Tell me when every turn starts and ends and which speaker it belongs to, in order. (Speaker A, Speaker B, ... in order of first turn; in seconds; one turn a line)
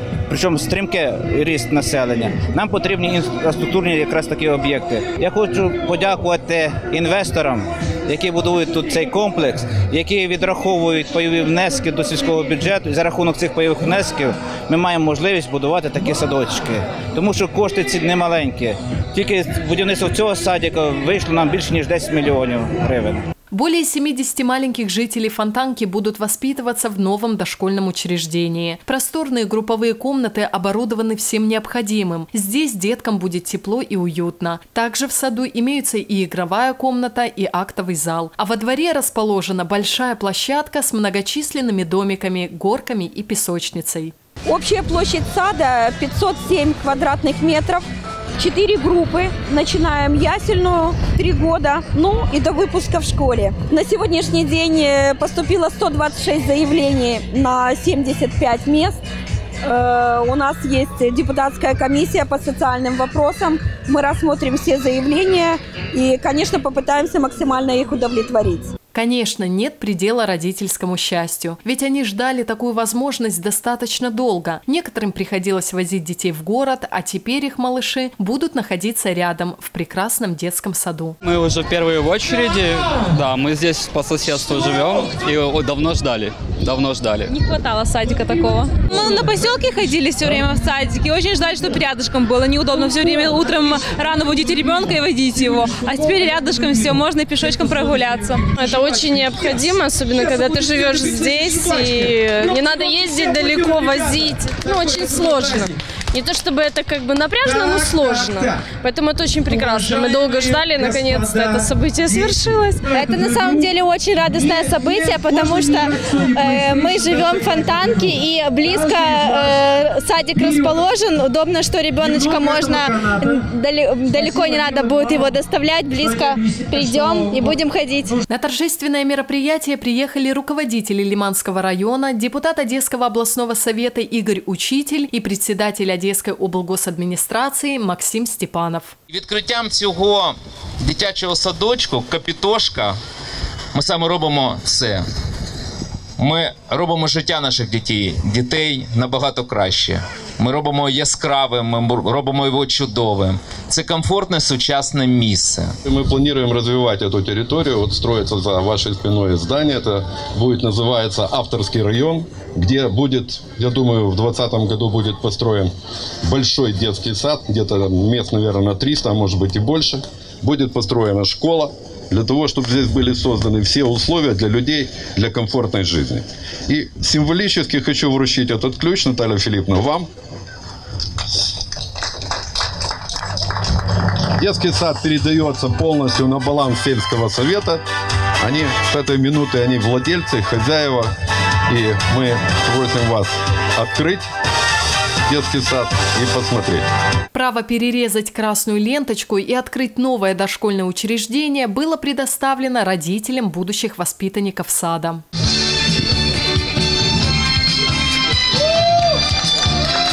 Speaker A: 0.3-23.2
Speaker B: 23.5-44.1
Speaker C: 44.5-47.8
Speaker C: 48.4-59.0
Speaker C: 59.6-68.7
Speaker B: 68.9-81.2
Speaker D: 81.2-87.3
Speaker E: 87.3-98.5
Speaker F: 98.4-113.0
Speaker G: 112.9-128.2
Speaker B: 128.3-138.9
Speaker H: 139.1-143.0
Speaker H: 143.7-145.0
Speaker H: 146.2-155.7
Speaker I: 155.9-165.7
Speaker I: 166.2-180.1
Speaker I: 184.4-187.8
Speaker I: 188.4-191.1
Speaker I: 191.7-194.3
Speaker I: 195.3-196.9
Speaker B: 197.3-205.2